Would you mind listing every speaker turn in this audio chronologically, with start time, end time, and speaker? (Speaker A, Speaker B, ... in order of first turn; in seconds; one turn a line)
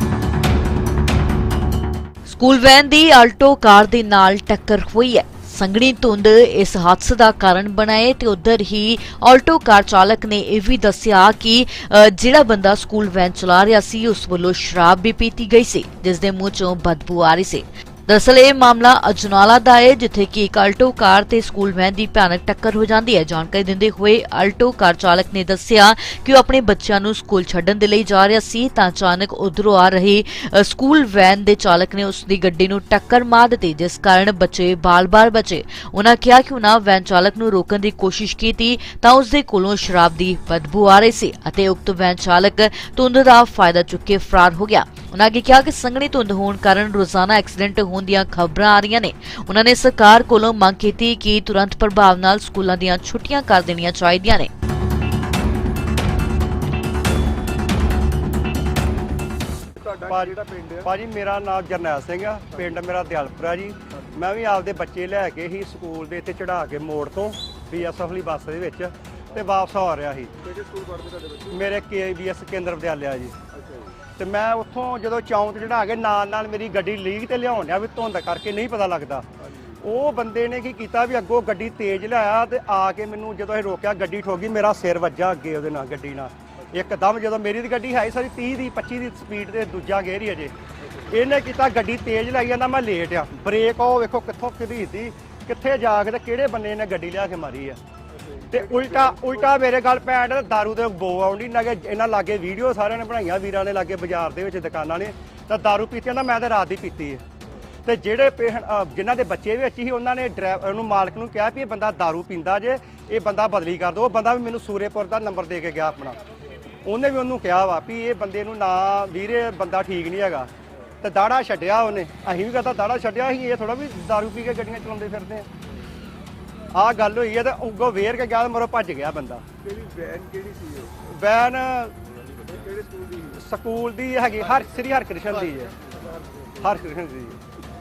Speaker A: 2.2-54.5
Speaker B: 59.8-60.9
Speaker C: 60.1-70.3
Speaker B: 63.9-64.2
Speaker B: 70.4-71.8
Speaker C: 71.5-73.3
Speaker B: 73.5-74.0
Speaker C: 74.2-79.2
Speaker B: 79.4-79.8
Speaker C: 79.8-90.5
Speaker B: 86.5-87.0
Speaker B: 90.8-91.2
Speaker C: 91.1-97.8
Speaker B: 98.1-99.5
Speaker C: 98.5-107.2
Speaker B: 107.5-107.7
Speaker C: 107.8-116.2
Speaker C: 116.8-120.5
Speaker B: 120.7-121.0
Speaker C: 121.0-125.5
Speaker C: 126.7-129.4
Speaker B: 129.6-131.0
Speaker C: 131.1-131.9
Speaker B: 132.4-133.4
Speaker C: 133.4-135.7
Speaker B: 135.8-136.7
Speaker C: 136.6-137.4